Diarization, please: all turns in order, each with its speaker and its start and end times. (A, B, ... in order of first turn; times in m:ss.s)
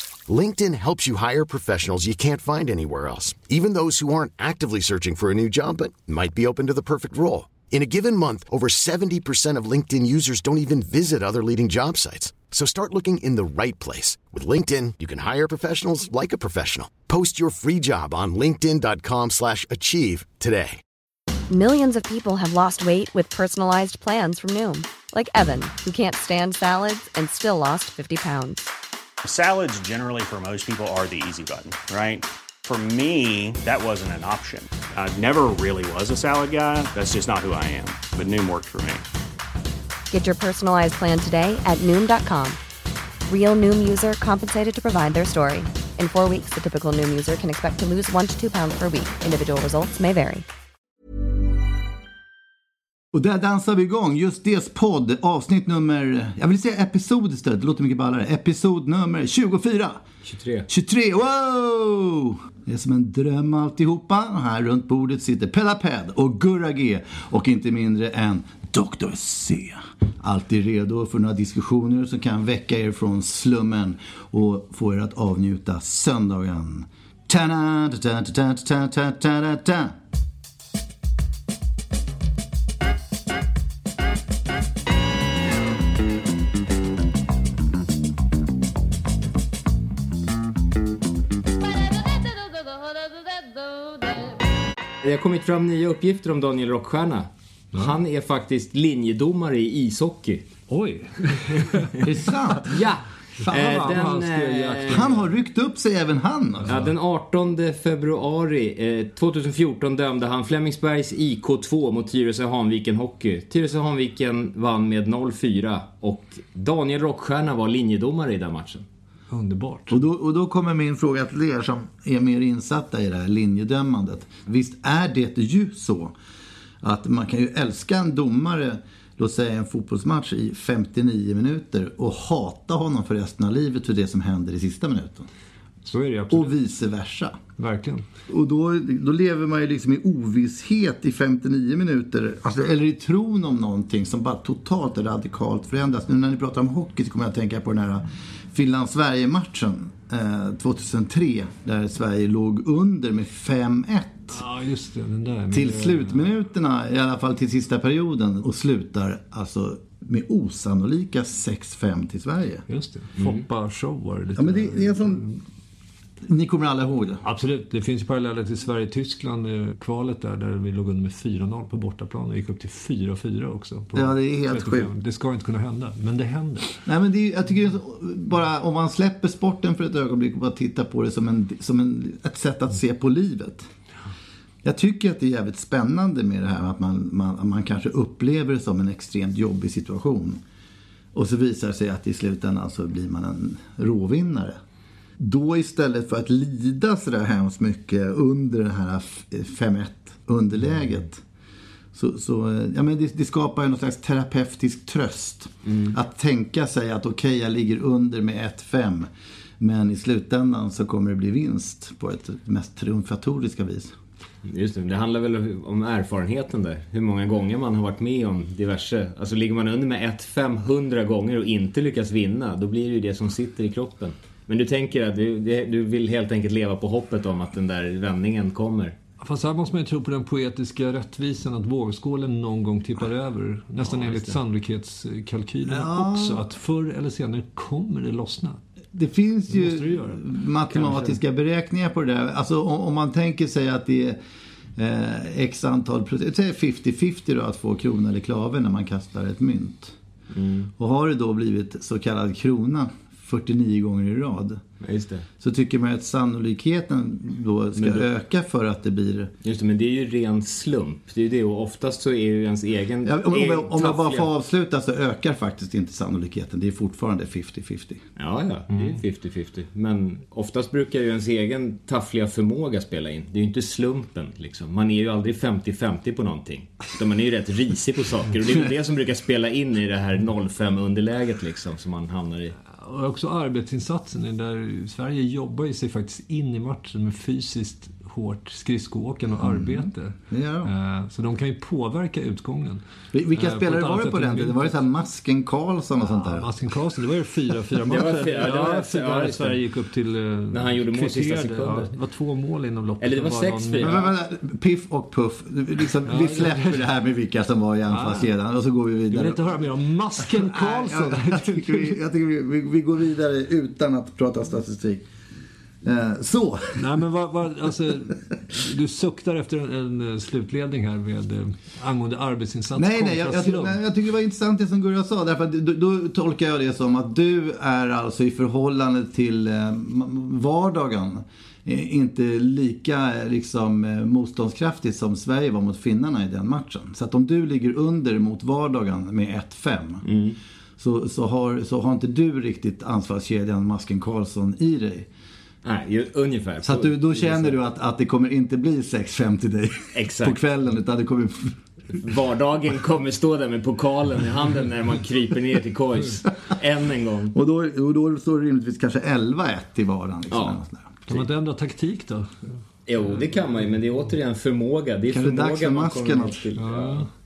0:00.3-0:20.8 A
0:21.5-0:28.6 B
0:29.2-0:39.0 C
0:40.1-0:42.6 B
0:43.3-0:50.4 B
0:53.1-1:00.0 D
1:00.2-1:00.7 E
1:00.7-1:19.9 D
1:35.0-1:40.5 E
1:40.7-1:42.0 F
1:42.0-1:42.8 D
1:42.7-1:45.1 E
1:43.4-1:45.1 F
1:44.9-1:46.8 D
1:46.6-1:46.9 F
1:46.7-1:58.8 E
1:59.3-2:00.0 F
1:59.9-2:06.2 D
2:06.8-2:15.3 D
2:15.8-2:16.5 F
2:16.3-2:17.4 D
2:17.6-2:18.0 F
2:18.3-2:34.4 D
2:34.3-2:36.3 F
2:35.5-2:42.6 D
2:42.7-2:45.4 F
2:43.2-2:43.4 E
2:44.4-2:45.3 D
2:46.2-2:47.2 D
2:47.2-2:56.8 F
2:53.9-2:54.9 D
2:56.8-3:03.7 D
3:04.6-3:10.4 D
3:11.1-3:14.6 D
3:15.2-3:21.2 D
3:21.9-3:33.9 D
3:25.6-3:26.0 E
3:34.4-3:48.9 E
3:49.2-3:58.6 F
3:53.8-3:54.4 E
3:55.7-3:56.5 D
3:58.9-4:04.2 D
3:59.5-4:00.2 F
4:00.7-4:01.2 E
4:04.8-4:10.0 D
4:10.3-4:10.7 E
4:10.8-4:14.6 D
4:14.8-4:15.3 E
4:15.4-4:19.3 D
4:17.8-4:18.1 E
4:19.4-4:24.3 E
4:23.0-4:28.0 D
4:28.2-4:42.6 E
4:28.7-4:29.0 F
4:42.7-4:52.8 F
4:49.4-4:50.7 D
4:53.1-4:56.5 D
4:53.3-4:54.8 F
4:56.0-5:04.0 F
4:57.9-4:59.6 E
5:00.5-5:01.9 E
5:03.0-5:04.1 E
5:03.8-5:09.6 D
5:06.1-5:06.8 F
5:07.9-5:08.3 F
5:09.1-5:12.0 F
5:10.2-5:15.1 D
5:15.8-5:16.8 D
5:16.8-5:23.8 F
5:22.8-5:40.0 D
5:40.0-5:40.4 E
5:40.8-5:45.1 D
5:45.6-5:47.6 E
5:46.6-5:51.6 D
5:49.9-5:50.4 E
5:51.9-5:57.3 E
5:57.3-6:00.9 D
6:00.3-6:00.6 E
6:01.1-6:02.6 F
6:02.9-6:07.1 E
6:05.1-6:06.4 D
6:06.6-6:07.1 F